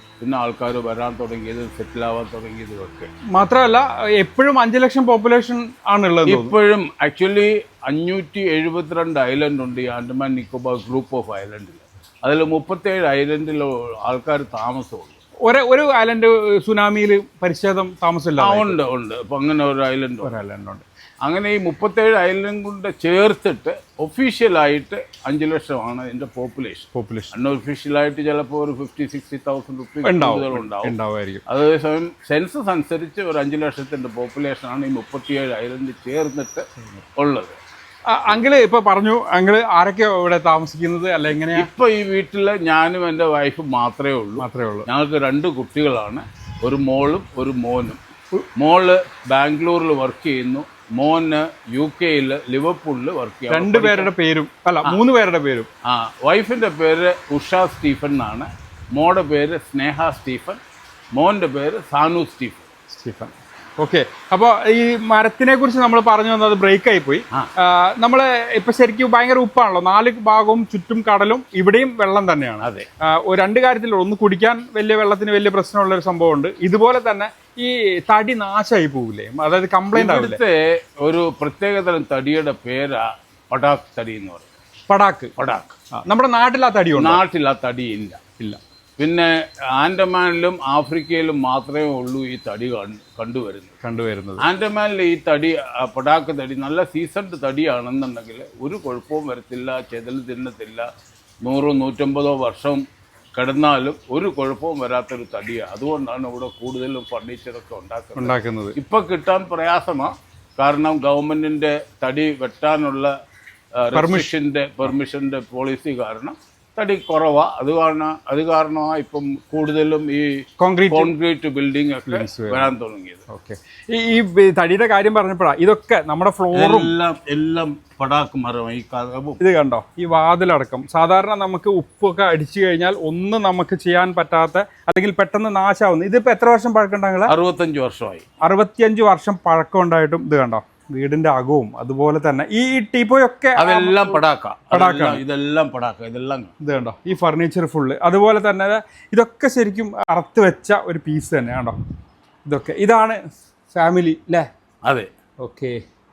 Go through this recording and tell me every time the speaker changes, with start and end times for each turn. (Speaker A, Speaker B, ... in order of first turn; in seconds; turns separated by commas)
Speaker A: 0.2-3.1, Speaker B: 3.3-6.5, Speaker A: 6.3-15.2, Speaker B: 15.4-18.8, Speaker A: 18.4-20.3, Speaker B: 20.2-20.9, Speaker A: 21.2-30.9, Speaker B: 26.9-27.3, Speaker B: 30.0-31.4, Speaker A: 31.5-37.6, Speaker B: 38.1-41.7, Speaker A: 41.5-48.0, Speaker B: 44.4-44.9, Speaker A: 48.6-54.1, Speaker B: 53.5-55.7, Speaker A: 55.9-60.6, Speaker A: 61.1-62.7, Speaker B: 62.9-80.4, Speaker A: 72.6-72.9, Speaker A: 79.9-84.5, Speaker B: 84.9-85.3, Speaker A: 85.4-85.8, Speaker B: 85.9-87.2, Speaker A: 87.0-88.2, Speaker A: 89.0-93.8, Speaker B: 93.8-94.4, Speaker A: 94.4-100.9, Speaker A: 101.4-102.8, Speaker A: 103.3-113.1, Speaker B: 108.2-108.8, Speaker A: 113.8-123.3, Speaker B: 113.9-114.3, Speaker B: 120.6-121.1, Speaker B: 122.1-122.7, Speaker B: 123.3-126.9, Speaker A: 126.5-129.4, Speaker B: 129.4-137.3, Speaker A: 137.3-138.3, Speaker B: 138.4-144.2, Speaker A: 143.6-146.5, Speaker B: 144.7-145.2, Speaker B: 146.6-151.8, Speaker B: 152.5-153.2, Speaker B: 153.7-154.5, Speaker A: 154.8-155.1, Speaker B: 155.4-155.8